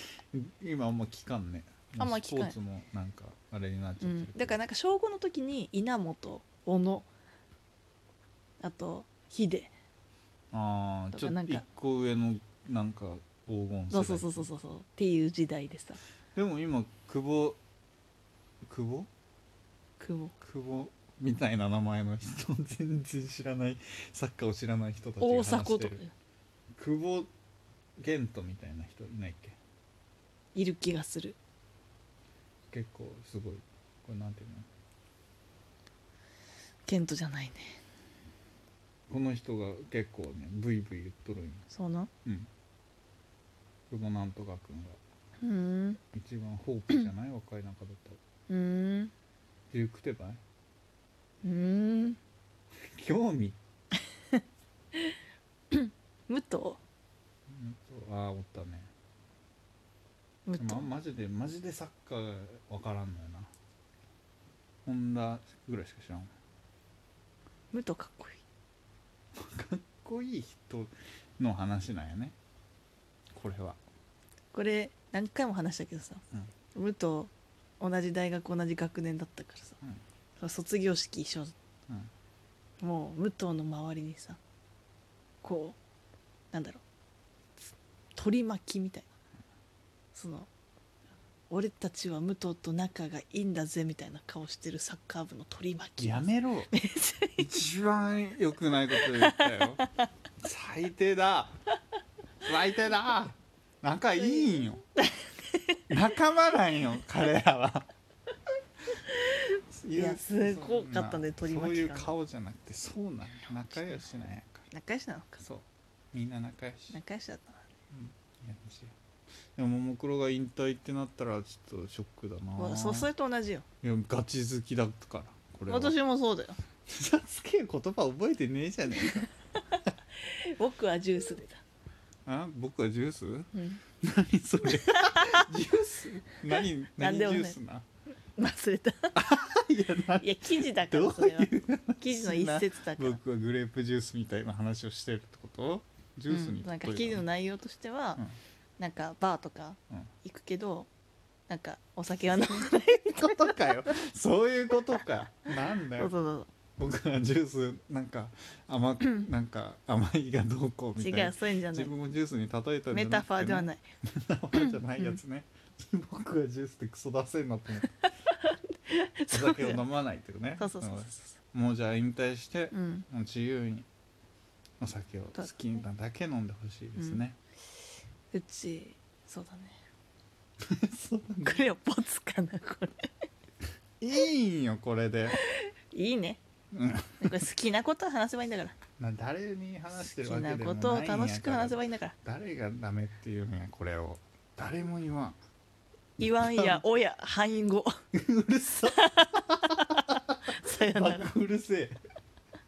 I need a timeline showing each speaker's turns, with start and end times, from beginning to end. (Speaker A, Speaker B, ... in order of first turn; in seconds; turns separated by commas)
Speaker A: 0.3-4.6, Speaker B: 2.0-2.6, Speaker B: 4.0-7.1, Speaker B: 8.6-9.7, Speaker A: 10.5-14.4, Speaker B: 11.1-11.6, Speaker B: 13.9-16.0, Speaker A: 16.3-17.6, Speaker A: 18.6-19.1, Speaker B: 20.0-20.3, Speaker A: 20.4-26.0, Speaker B: 25.2-26.1, Speaker A: 26.8-27.3, Speaker A: 28.0-29.6, Speaker B: 30.5-31.4, Speaker A: 32.7-34.7, Speaker B: 36.9-37.8, Speaker A: 39.1-41.6, Speaker B: 41.7-42.1, Speaker A: 43.9-45.0, Speaker B: 45.4-46.0, Speaker A: 46.1-48.2, Speaker B: 48.5-49.1, Speaker A: 49.7-50.4, Speaker B: 51.4-52.2, Speaker A: 52.9-53.6, Speaker B: 55.7-56.8, Speaker A: 57.5-58.9, Speaker B: 60.5-60.9, Speaker A: 60.6-63.5, Speaker A: 64.8-66.3, Speaker B: 67.7-68.4, Speaker A: 69.3-72.3, Speaker A: 73.3-73.8, Speaker B: 74.5-76.2, Speaker B: 76.7-79.8, Speaker B: 80.4-81.5, Speaker B: 82.8-84.4, Speaker B: 85.4-85.8, Speaker B: 86.5-86.8, Speaker B: 88.2-89.1, Speaker B: 90.1-90.5, Speaker B: 91.5-97.5, Speaker A: 96.0-96.7, Speaker A: 97.4-99.8, Speaker B: 98.9-100.0, Speaker A: 100.4-101.5, Speaker A: 102.4-104.8, Speaker B: 104.2-105.8, Speaker A: 105.9-107.9, Speaker B: 109.0-112.1, Speaker A: 109.7-114.7, Speaker B: 114.7-115.4, Speaker A: 115.4-117.0, Speaker B: 116.9-117.7, Speaker A: 117.9-118.9, Speaker A: 119.5-123.1, Speaker B: 122.6-123.6, Speaker A: 123.8-126.0, Speaker B: 125.7-126.6, Speaker A: 126.9-129.3, Speaker B: 129.0-131.6, Speaker A: 132.2-137.8, Speaker B: 133.5-133.8, Speaker B: 134.7-135.4, Speaker B: 137.0-137.6, Speaker B: 138.3-139.2, Speaker A: 139.1-147.2, Speaker B: 140.2-143.2, Speaker B: 146.3-148.2, Speaker B: 148.8-150.9, Speaker B: 151.5-153.9, Speaker A: 152.9-156.1, Speaker B: 155.8-156.5, Speaker A: 156.8-167.9, Speaker B: 161.0-161.9, Speaker B: 162.9-163.8, Speaker B: 164.5-165.2, Speaker B: 167.8-169.8, Speaker A: 169.3-173.9, Speaker B: 170.6-171.3, Speaker B: 172.7-173.1, Speaker A: 174.8-177.4, Speaker B: 178.3-179.8, Speaker A: 180.6-181.6, Speaker B: 181.4-183.1, Speaker A: 184.0-185.4, Speaker B: 185.3-186.4, Speaker A: 186.7-187.4, Speaker B: 187.2-188.8, Speaker A: 189.0-195.4, Speaker B: 190.1-192.2, Speaker B: 196.2-197.9, Speaker A: 196.2-196.8, Speaker A: 198.1-202.0, Speaker B: 198.9-201.3